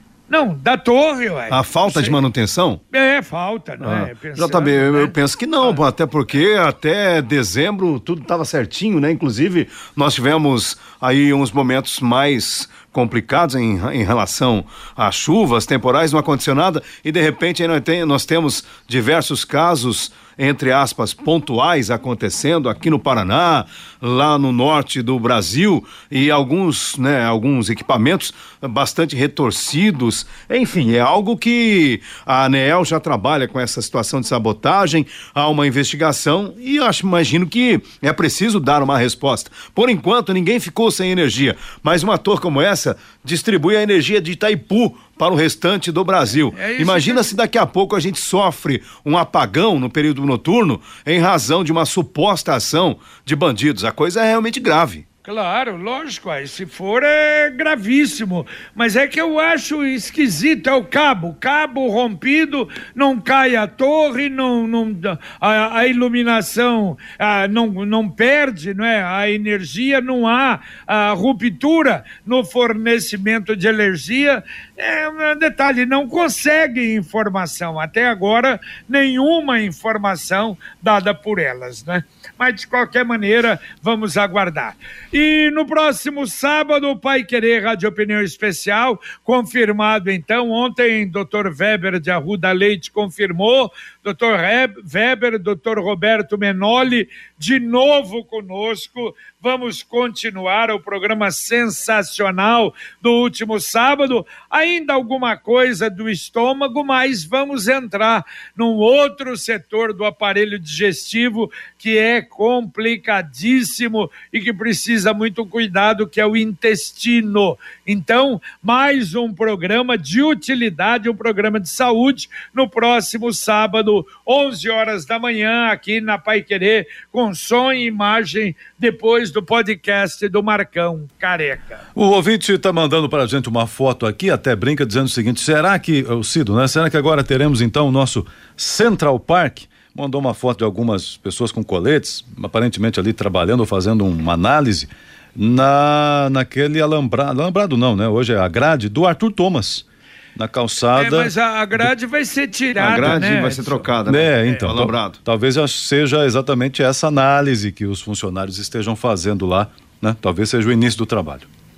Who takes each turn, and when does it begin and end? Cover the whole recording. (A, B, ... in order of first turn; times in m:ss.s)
0:00.3-0:02.2 A
0:01.5-0:02.8 B
0:02.9-0:05.8 A
0:03.8-0:55.0 B
0:46.5-0:47.3 A
0:55.2-2:11.8 A
2:11.9-2:29.8 C
2:30.4-2:31.9 C
2:30.9-2:33.9 A
2:32.8-2:35.2 B
2:34.1-2:41.5 C